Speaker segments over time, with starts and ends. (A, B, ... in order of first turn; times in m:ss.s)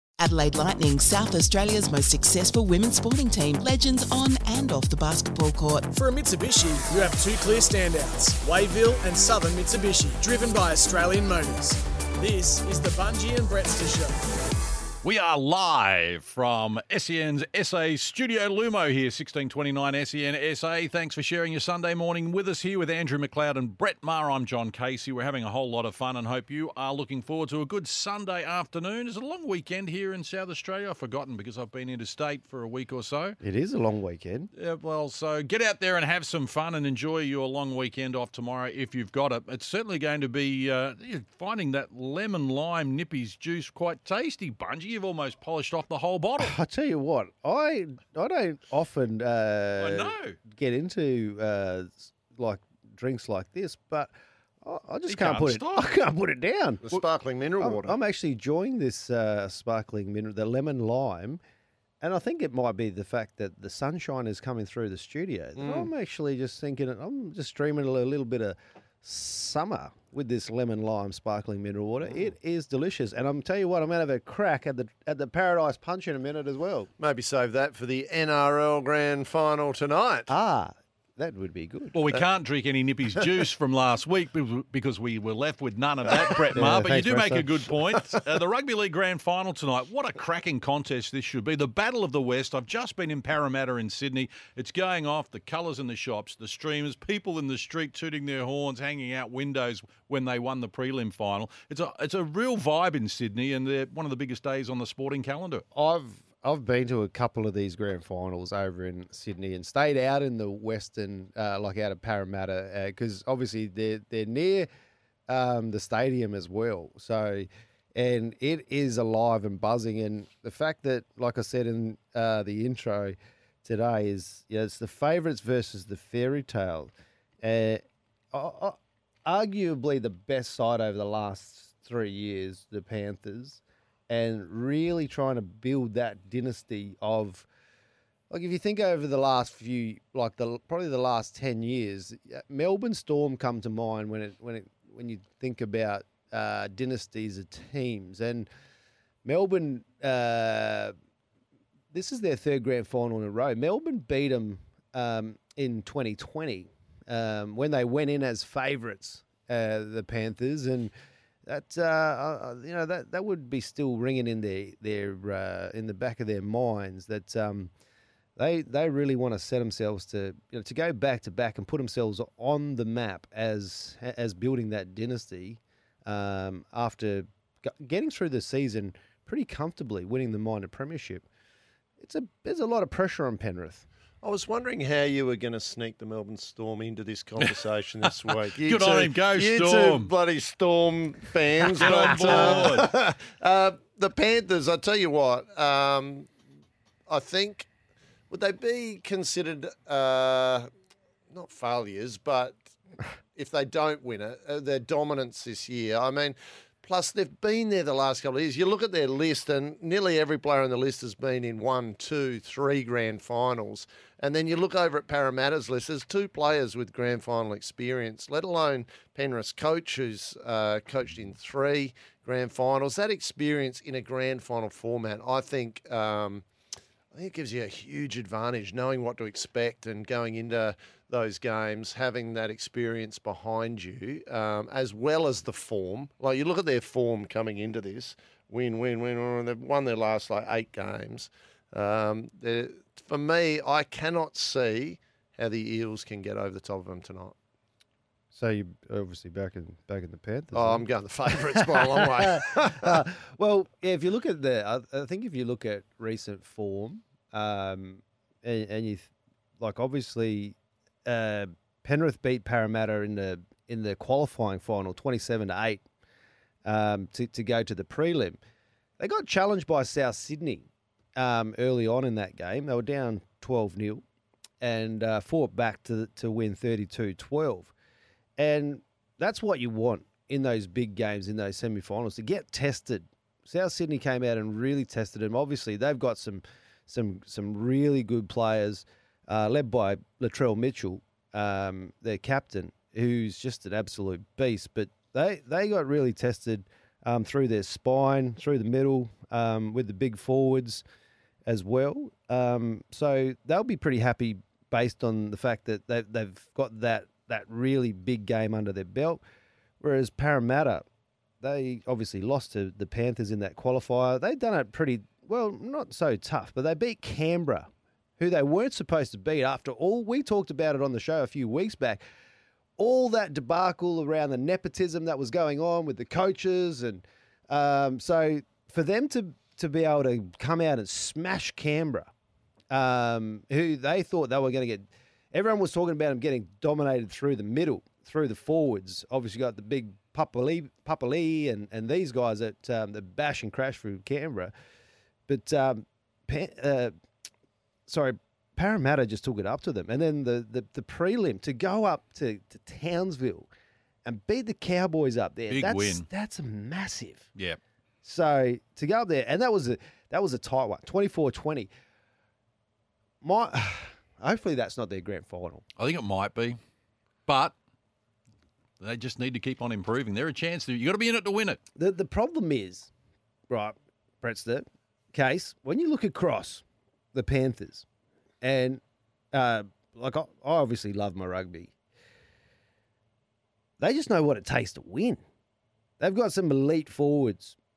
0:00.2-0:05.9 A
0:05.9-0:14.2 B
0:15.0-0:33.4 C
0:33.4-0:34.5 D
0:34.6-0:46.5 C
0:46.4-0:54.1 D
0:49.8-0:50.4 C
0:54.6-0:57.0 D
0:55.1-0:55.8 C
0:56.8-0:58.0 E
0:57.6-1:01.4 D
1:02.0-1:16.9 D
1:05.6-1:05.9 E
1:17.0-1:20.3 E
1:20.3-1:22.0 D
1:21.9-1:45.6 C
1:26.5-1:27.5 D
1:45.7-1:54.7 D
1:55.3-2:07.8 D
2:08.3-2:17.5 D
2:18.3-2:28.5 D
2:29.2-2:30.9 D
2:31.9-2:40.9 D
2:41.5-2:47.7 D
2:48.4-3:01.2 D
3:02.0-3:03.8 D
3:04.2-3:16.3 E
3:08.0-3:10.1 C
3:11.6-3:12.9 C
3:17.1-3:17.7 E
3:18.3-3:20.7 E
3:21.3-3:22.7 E
3:23.3-3:46.4 E
3:47.1-4:07.3 E
4:08.3-4:25.8 D
4:10.5-4:13.0 E
4:26.6-4:28.4 D
4:29.0-4:34.0 D
4:34.6-4:37.7 D
4:38.4-5:00.8 D
5:01.4-5:09.2 D
5:09.8-5:10.8 D
5:11.4-5:22.0 D
5:22.8-5:32.1 D
5:32.7-5:44.5 D
5:45.3-5:46.9 D
5:47.9-5:53.5 D
5:54.0-5:57.2 D
5:55.5-5:56.0 C
5:58.0-6:01.7 D
6:03.2-6:05.6 D
6:05.8-6:06.6 C
6:07.3-6:07.5 C
6:08.8-6:11.6 C
6:11.8-6:12.9 D
6:13.5-6:17.8 D
6:18.4-6:18.8 D
6:19.3-6:21.7 D
6:23.8-6:25.2 D
6:26.0-6:27.6 D